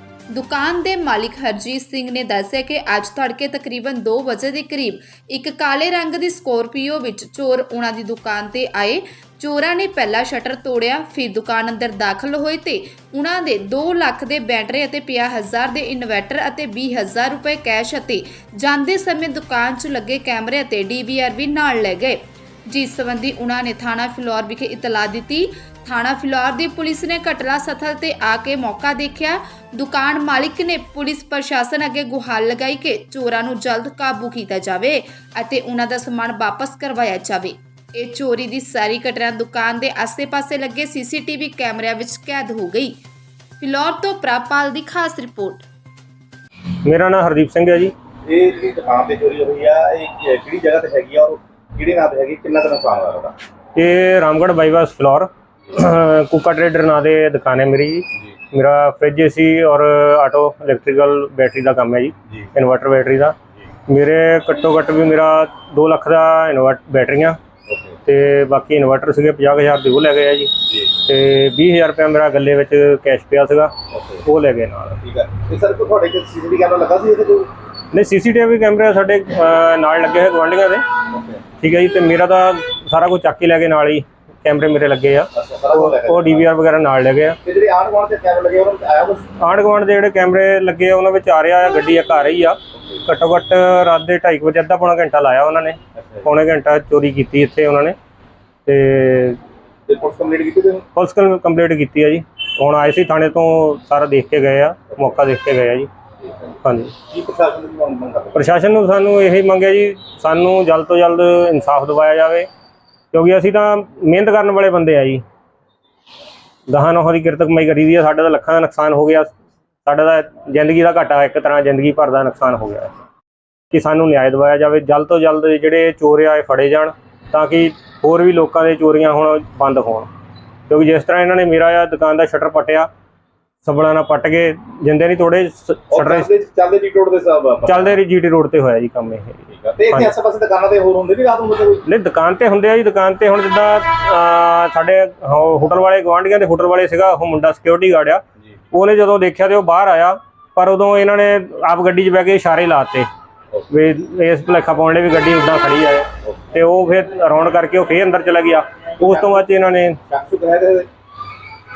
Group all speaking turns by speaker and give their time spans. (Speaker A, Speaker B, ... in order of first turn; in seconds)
Speaker A: 0.3-43.0, 43.6-45.7
Speaker B: 46.8-47.9, 53.8-63.4, 63.9-67.4, 68.1-70.5, 71.0-73.7, 74.2-75.0, 77.9-80.8, 81.6-87.4, 89.4-98.0, 98.7-99.4, 101.0-105.9, 106.6-106.9, 108.3-112.5, 113.1-115.2, 116.7-119.3, 119.8-122.9, 123.7-130.1, 130.7-132.9, 133.6-136.3, 137.7-140.1, 141.9-153.1, 153.7-160.0
Speaker C: 48.2-53.4, 67.7-68.0, 70.7-70.9, 73.9-74.2, 74.9-77.5, 81.1-81.5, 85.3-86.5, 87.4-89.3, 96.0-96.3, 99.9-100.8, 106.2-106.6, 107.1-108.6, 135.9-138.0, 139.5-141.9, 159.0-159.4, 160.1-160.9